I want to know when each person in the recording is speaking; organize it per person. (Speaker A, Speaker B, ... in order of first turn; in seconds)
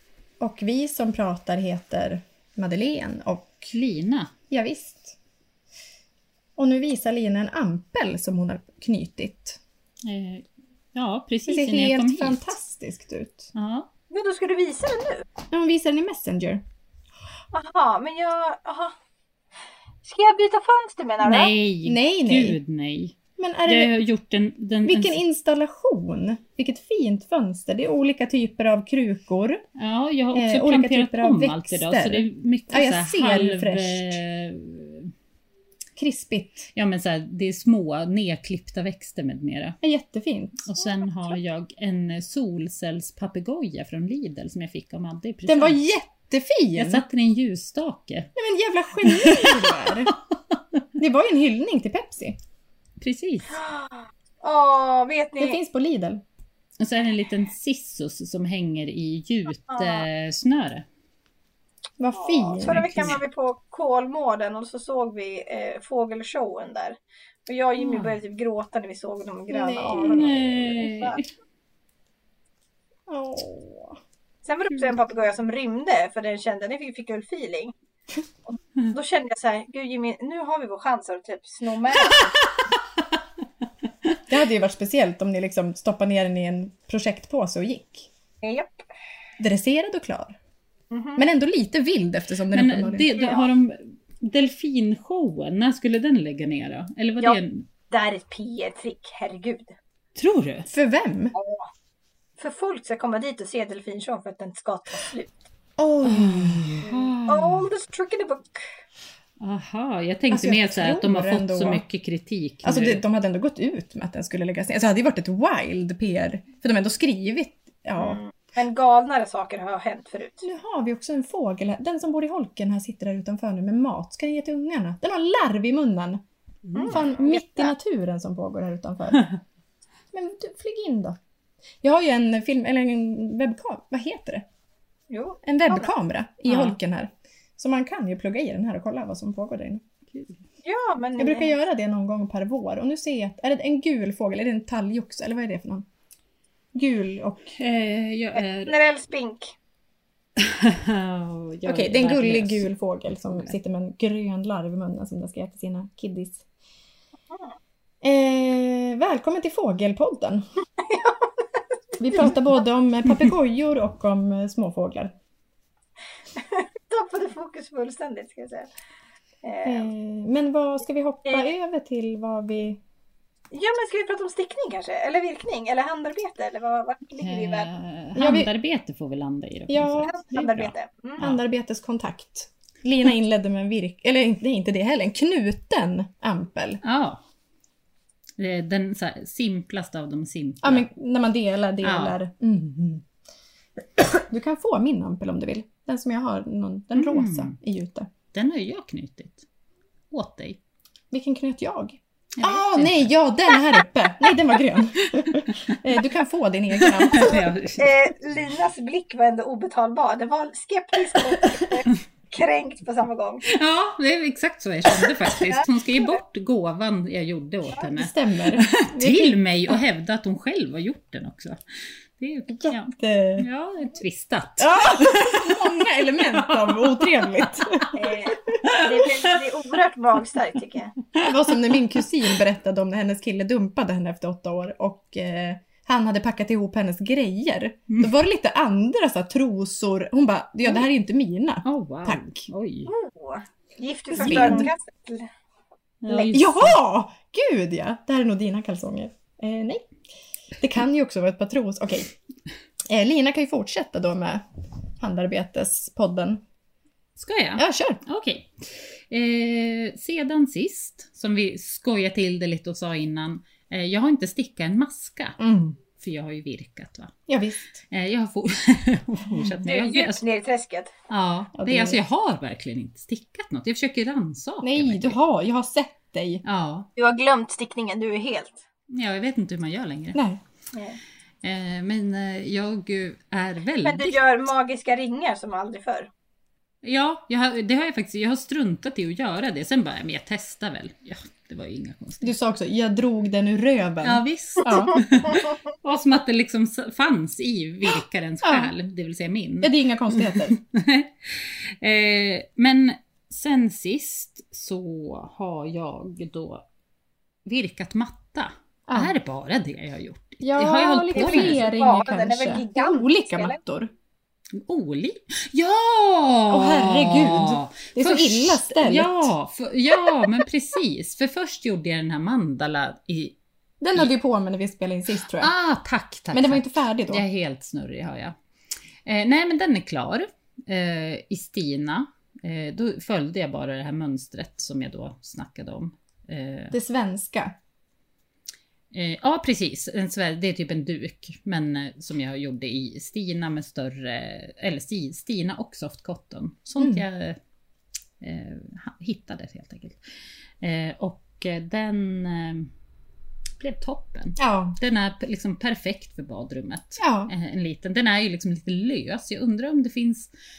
Speaker A: 0.4-3.7, 4.5-5.2, 6.5-9.6, 11.5-13.5, 15.5-16.6, 21.8-22.6, 23.4-23.9, 24.8-29.6, 30.3-34.2, 36.0-36.7, 39.8-40.8, 45.5-47.0, 48.4-50.1, 51.0-52.4, 55.4-56.2, 62.0-63.1, 69.5-70.6, 73.1-74.0, 84.3-88.1, 89.4-90.4, 91.2-93.1, 100.7-101.3, 105.8-107.1, 110.3-111.8, 112.6-118.2, 120.4-126.2, 126.8-129.4, 130.1-131.2, 131.8-134.4, 135.4-139.8, 141.2-145.8, 146.7-147.5, 151.7-156.4, 158.0-160.4, 162.0-165.1, 169.6-172.8, 178.2-178.5, 179.7-180.7, 181.2-186.8, 190.6-193.0, 194.0-198.1, 201.1-207.5, 217.9-219.8, 222.6-223.4, 224.6-228.1, 231.2-242.3, 244.1-244.7, 246.1-249.9, 250.6-252.1, 252.9-254.4, 255.0-256.4, 257.6-258.0, 265.4-265.8, 267.3-267.8, 271.5-272.0, 274.6-276.4, 280.1-280.4, 292.2-295.0, 298.4-298.7, 299.6-300.6, 308.9-309.1, 310.4-313.9, 316.5-319.3, 323.8-325.5, 326.3-327.2, 336.7-337.5, 346.8-347.0, 354.4-354.8, 357.0-357.3
Speaker B: 3.7-4.3, 10.0-12.5, 13.5-13.9, 21.2-25.2, 29.8-35.1, 36.7-39.8, 40.6-45.8, 46.8-48.3, 49.0-50.2, 53.0-53.6, 56.8-60.9, 62.6-63.2, 67.8-68.1, 69.9-71.3, 82.0-82.5, 92.5-97.7, 100.2-100.7, 106.0-107.6, 109.4-113.0, 126.7-126.9, 136.5-136.8, 140.1-140.4, 147.5-148.7, 150.4-152.7, 177.2-180.7, 186.8-187.2, 188.4-190.9, 191.8-192.2, 196.9-197.5, 198.3-199.4, 200.1-200.6, 202.4-203.1, 205.2-205.8, 206.8-207.9, 213.4-221.6, 222.2-225.6, 241.6-242.9, 244.2-244.7, 246.0-246.8, 257.2-265.4, 266.0-267.1, 267.9-270.2, 271.1-275.2, 276.4-276.9, 278.9-280.2, 281.4-284.2, 286.8-292.3, 294.0-306.6, 307.4-311.7, 314.6-323.4, 325.4-328.4, 329.0-336.7, 338.9-347.4, 348.2-350.0, 350.6-352.7, 353.6-360.3
Speaker C: 14.1-15.2, 17.5-18.9, 20.0-21.5, 53.5-55.6, 59.7-60.0, 62.1-71.2, 74.4-77.7, 78.5-82.4, 88.4-88.8, 90.9-91.2, 93.1-93.5, 97.9-99.7, 101.3-101.7, 102.4-105.4, 106.8-108.6, 118.0-120.4, 126.7-127.7, 135.1-135.9, 140.6-141.5, 148.3-149.5, 160.8-161.3, 166.3-168.7, 169.4-169.9, 173.5-177.7, 180.0-181.2, 207.8-213.4, 215.3-216.2, 227.9-230.9, 242.9-245.3, 269.6-270.9, 276.9-278.6, 280.7-281.0, 283.8-286.1, 311.1-313.6